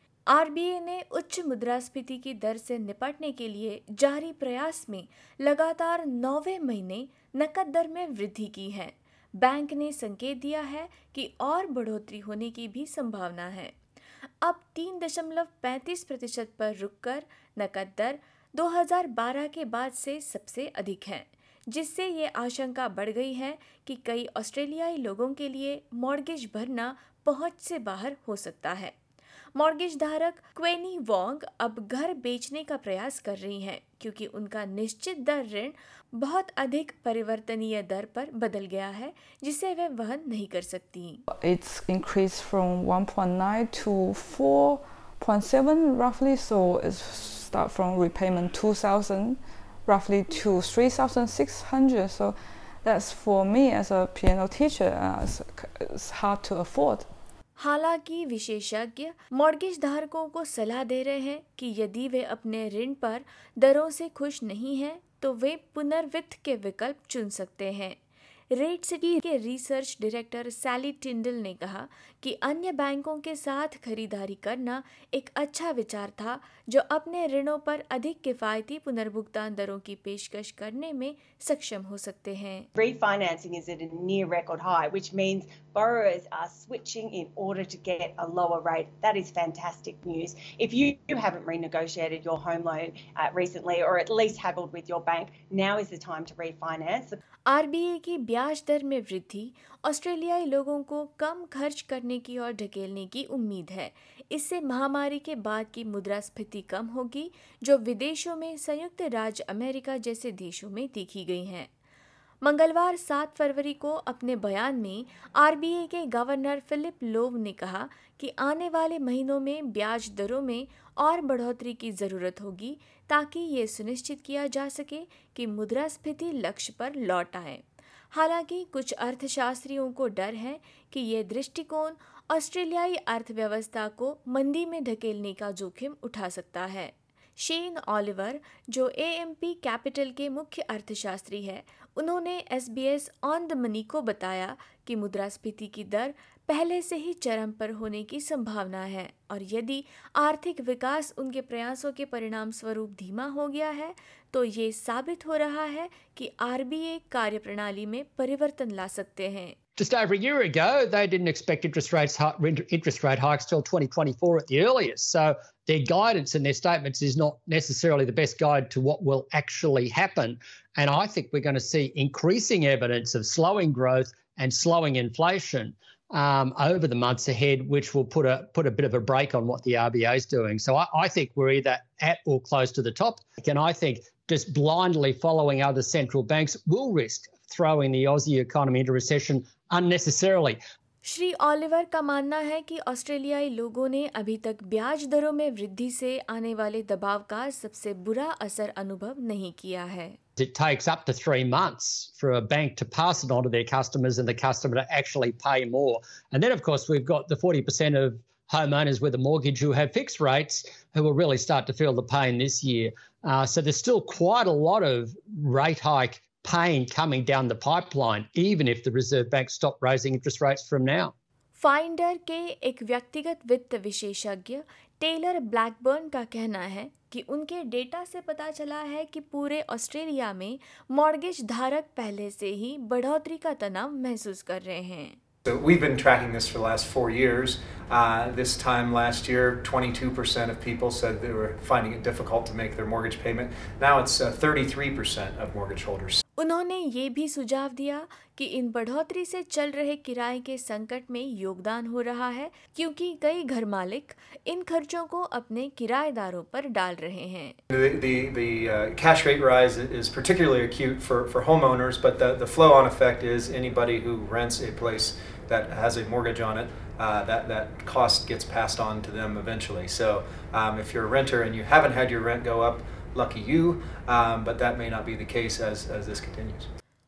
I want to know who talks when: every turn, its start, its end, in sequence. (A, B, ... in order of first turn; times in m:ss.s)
0:00.3-0:13.8 A
0:14.4-0:29.0 A
0:29.6-0:41.2 A
0:41.3-0:57.1 B
0:57.6-1:08.0 A
1:08.5-1:22.7 A
1:22.8-1:37.2 C
1:37.5-1:51.7 A
1:52.4-2:39.6 A
2:39.8-3:10.6 D
3:11.0-3:20.2 A
3:20.4-3:41.1 D
3:41.6-3:55.2 A
3:55.5-4:06.2 E
4:06.4-4:17.6 A
4:17.7-4:36.7 E